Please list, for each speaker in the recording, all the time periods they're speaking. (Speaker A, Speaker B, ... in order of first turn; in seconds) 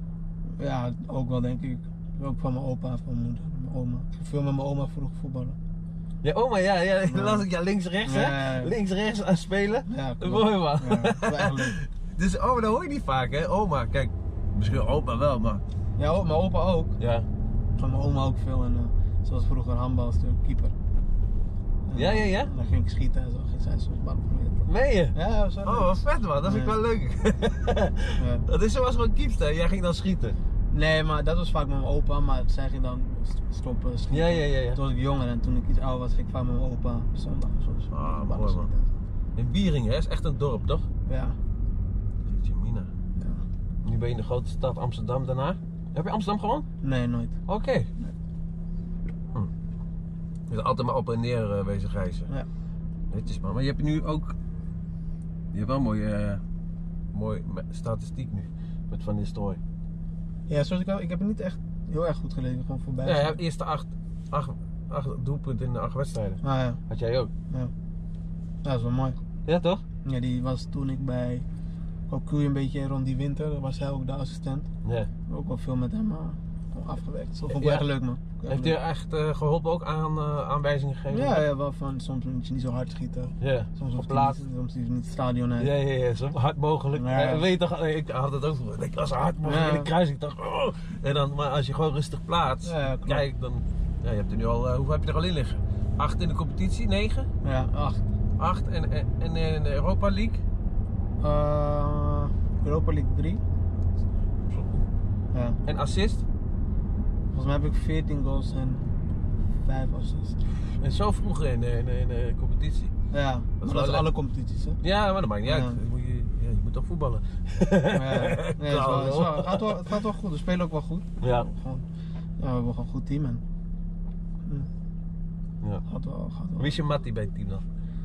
Speaker A: 0.6-5.6, 7.0-7.5, 8.0-8.8, 9.9-11.8, 16.0-17.0, 17.8-20.7, 21.9-26.8, 28.2-28.5, 30.7-38.9, 41.1-41.4, 43.2-43.4, 46.8-47.4, 60.5-63.4, 66.4-66.8, 68.6-69.2, 70.0-71.5, 72.1-74.7, 75.3-78.8, 81.1-85.7, 86.9-87.5, 89.4-89.9, 92.6-93.3, 97.4-98.1, 101.2-103.4, 105.3-105.6, 107.3-108.8, 109.6-110.4, 113.1-114.8, 115.5-115.8, 117.9-121.9, 122.4-123.4, 125.9-126.8
Speaker B: 6.2-15.6, 17.0-17.3, 21.9-22.5, 24.7-30.4, 34.1-34.8, 37.9-38.7, 39.4-40.9, 42.2-42.9, 43.8-46.7, 47.5-47.9, 50.5-52.3, 53.1-54.4, 55.5-56.4, 57.1-59.6, 63.0-67.3, 69.5-69.8, 74.8-75.1, 77.5-77.8, 78.5-81.5, 83.4-84.4, 85.6-97.3, 98.4-100.4, 104.4-104.9, 105.7-106.2, 110.7-112.9, 113.6-114.1, 114.8-119.9, 121.2-121.5, 126.6-127.7